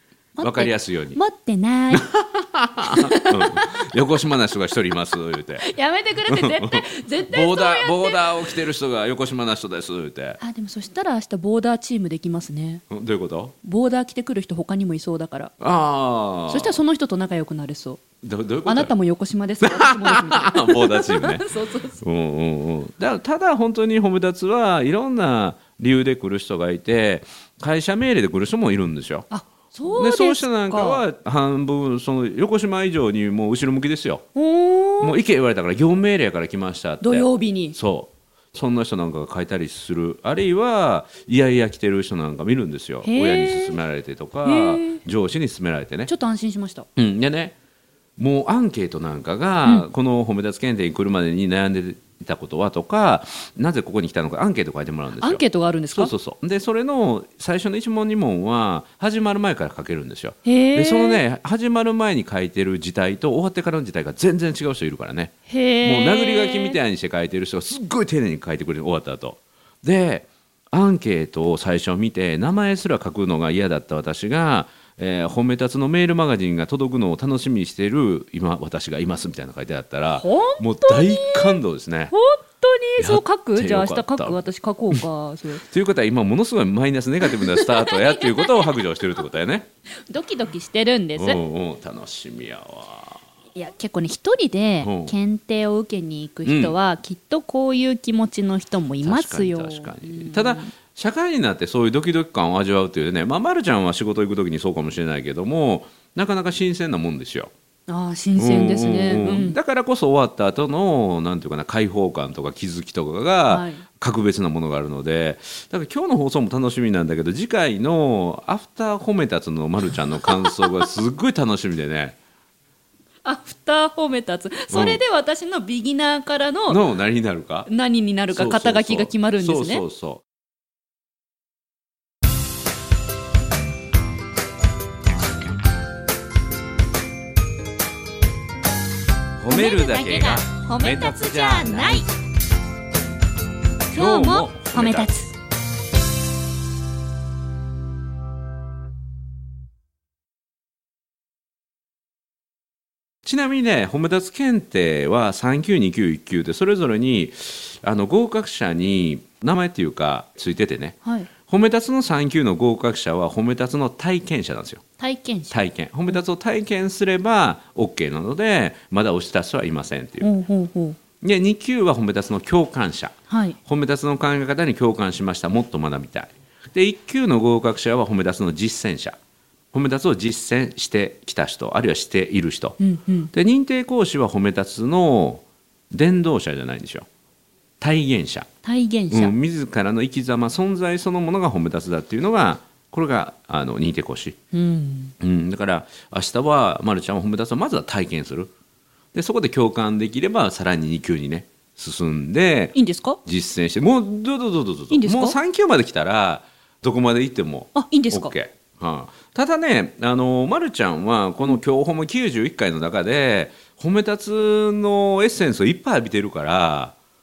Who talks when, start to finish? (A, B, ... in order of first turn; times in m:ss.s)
0:00.4-0:02.1 A
0:00.4-0:01.2 B
0:01.9-0:05.7 B
0:02.8-0:03.9 A
0:05.6-0:08.4 A
0:06.2-0:10.4 B
0:10.4-0:12.8 A
0:12.9-0:13.5 B
0:13.6-0:15.5 A
0:15.6-0:16.8 B
0:16.5-0:18.0 A
0:18.2-0:18.9 B
0:18.6-0:22.0 A
0:19.6-0:21.4 B
0:22.0-0:29.3 B
0:29.3-0:31.0 A
0:29.9-0:34.2 B
0:34.4-0:35.2 A
0:35.0-0:46.1 B
0:37.0-0:37.8 A
0:43.0-0:43.8 A
0:44.4-0:45.0 A
0:46.1-0:46.9 A
0:47.0-0:47.5 B
0:48.2-1:22.1 B
0:55.2-0:56.1 A
1:00.4-1:01.2 A
1:05.5-1:06.8 A
1:20.2-1:25.6 A
1:23.0-1:25.0 B
1:25.6-1:29.7 B
1:27.2-1:28.8 A
1:30.1-1:31.4 A
1:31.2-1:33.2 B
1:33.5-1:40.7 A
1:34.8-1:35.1 B
1:36.4-1:36.8 B
1:39.0-1:47.5 B
1:47.9-1:49.6 A
1:48.4-2:02.2 B
1:53.5-1:53.8 A
2:00.2-2:00.9 A
2:03.2-2:06.8 A
2:04.7-2:05.0 B
2:06.7-2:07.7 B
2:07.7-2:09.8 A
2:08.3-2:10.2 B
2:19.4-2:22.0 B
2:19.5-2:22.1 A
2:23.9-2:25.3 A
2:23.9-2:25.1 B
2:33.2-2:44.8 B
2:45.0-2:45.6 A
2:45.5-2:50.3 B
2:50.2-2:51.0 A
2:51.2-2:59.2 B
2:53.3-2:53.6 A
2:59.7-3:02.8 B
3:02.8-3:03.3 A
3:03.3-3:07.1 B
3:07.8-3:08.5 B
3:08.6-3:09.3 A
3:09.1-3:14.4 B
3:14.5-3:15.1 A
3:15.2-3:18.5 B
3:19.1-3:36.9 B
3:22.7-3:23.2 A
3:24.9-3:25.4 A
3:27.7-3:28.3 A